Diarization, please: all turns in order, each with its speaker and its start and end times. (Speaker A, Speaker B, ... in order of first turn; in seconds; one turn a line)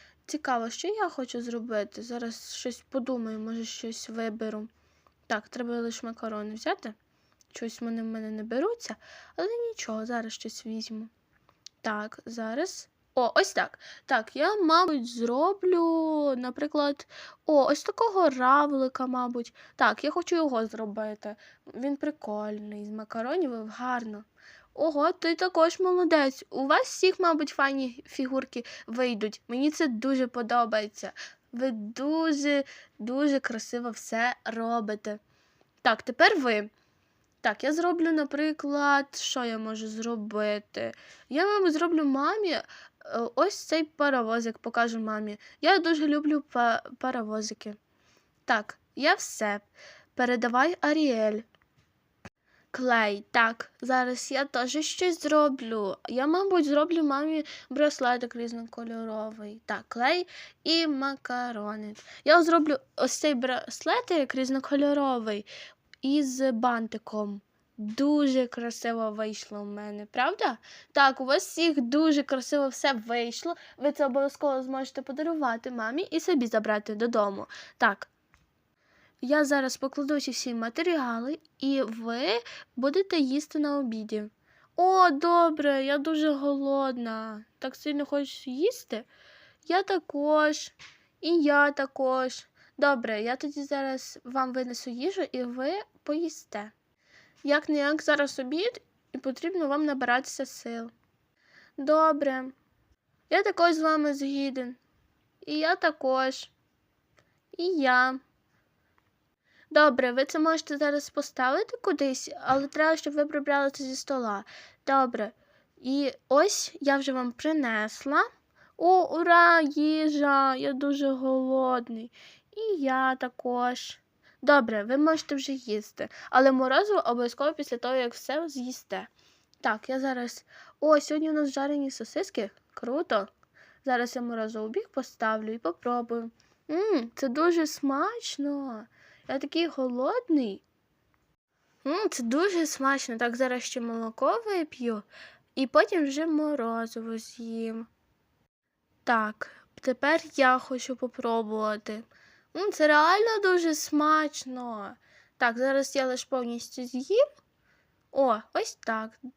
Speaker A: 0.2-4.7
Speaker A: 5.3-7.0
Speaker A: 7.5-11.1
Speaker A: 11.8-35.2
Speaker A: 35.8-36.7
Speaker A: 37.4-47.8
Speaker A: 48.5-51.4
Speaker A: 52.7-65.5
Speaker A: 66.0-78.1
Speaker A: 79.2-89.1
Speaker A: 89.6-96.7
Speaker A: 97.4-100.9
Speaker A: 101.8-102.6
Speaker A: 103.3-104.8
Speaker A: 105.4-106.5
Speaker A: 107.5-108.2
Speaker A: 109.7-118.2
Speaker A: 118.8-129.1
Speaker A: 129.6-133.3
Speaker A: 133.8-140.6
Speaker A: 141.8-145.1
Speaker A: 145.6-147.9
Speaker A: 149.1-157.2
Speaker A: 158.1-159.2